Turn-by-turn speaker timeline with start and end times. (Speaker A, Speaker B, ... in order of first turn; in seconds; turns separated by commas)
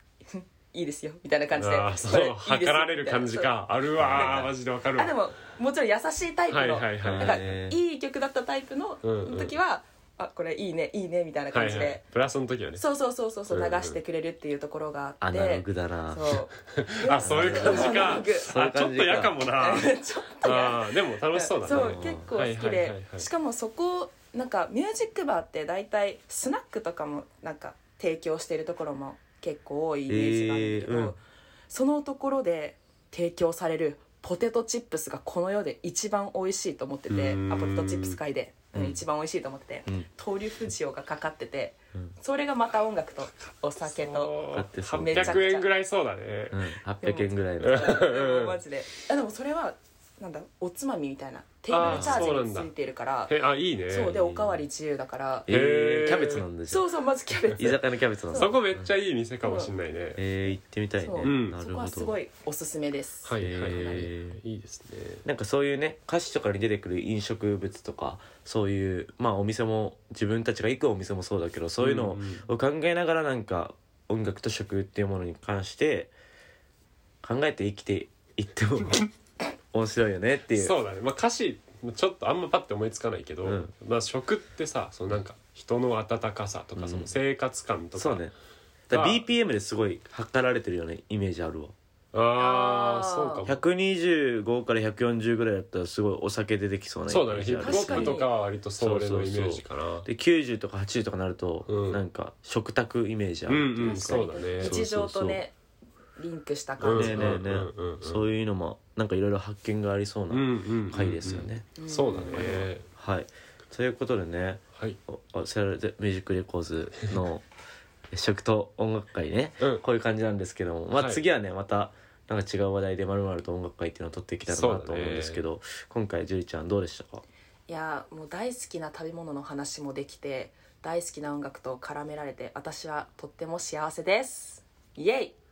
Speaker A: 0.3-3.5, Speaker B: 1.5-5.2, Speaker C: 4.0-4.5, Speaker A: 4.1-12.0, Speaker B: 6.5-7.5, Speaker C: 7.0-7.8, Speaker B: 9.0-9.5, Speaker B: 11.5-12.8, Speaker A: 12.8-18.5, Speaker B: 13.5-14.0, Speaker C: 15.2-16.3, Speaker B: 16.8-23.3, Speaker C: 17.2-19.4, Speaker A: 19.5-44.4, Speaker C: 21.7-22.3, Speaker C: 30.1-31.2, Speaker B: 37.1-38.2, Speaker C: 38.7-39.0, Speaker B: 43.8-46.7, Speaker C: 44.5-45.4, Speaker A: 45.0-45.7, Speaker C: 46.5-47.8, Speaker A: 47.0-53.3, Speaker B: 47.6-48.6, Speaker B: 51.7-52.7, Speaker C: 51.8-52.3, Speaker B: 53.3-54.1, Speaker A: 53.9-55.5, Speaker C: 54.0-54.6, Speaker B: 55.5-56.5, Speaker C: 55.5-56.9, Speaker A: 56.7-58.6, Speaker C: 57.5-58.9, Speaker B: 58.3-60.2, Speaker A: 59.4-59.7, Speaker C: 60.2-62.2, Speaker A: 61.0-64.1, Speaker B: 61.2-61.6, Speaker B: 63.2-65.2, Speaker C: 63.4-64.4, Speaker C: 65.2-76.1, Speaker B: 71.8-72.5, Speaker C: 77.2-79.1, Speaker C: 79.7-80.8, Speaker B: 80.5-88.3, Speaker C: 83.4-83.7, Speaker C: 86.8-87.2, Speaker C: 88.0-88.3, Speaker C: 88.9-91.8, Speaker B: 88.9-89.3, Speaker B: 92.1-93.6, Speaker A: 92.4-93.4, Speaker C: 93.5-98.2, Speaker B: 97.1-100.1, Speaker A: 97.6-98.3, Speaker C: 98.8-105.4, Speaker B: 101.7-102.0, Speaker B: 103.5-104.8, Speaker A: 103.8-105.5, Speaker A: 106.2-107.4, Speaker B: 106.8-108.3, Speaker C: 106.9-117.5, Speaker B: 110.3-112.9, Speaker A: 111.8-112.7, Speaker B: 114.7-115.0, Speaker C: 118.1-127.2, Speaker B: 120.9-121.2, Speaker B: 124.5-125.4, Speaker A: 127.7-135.3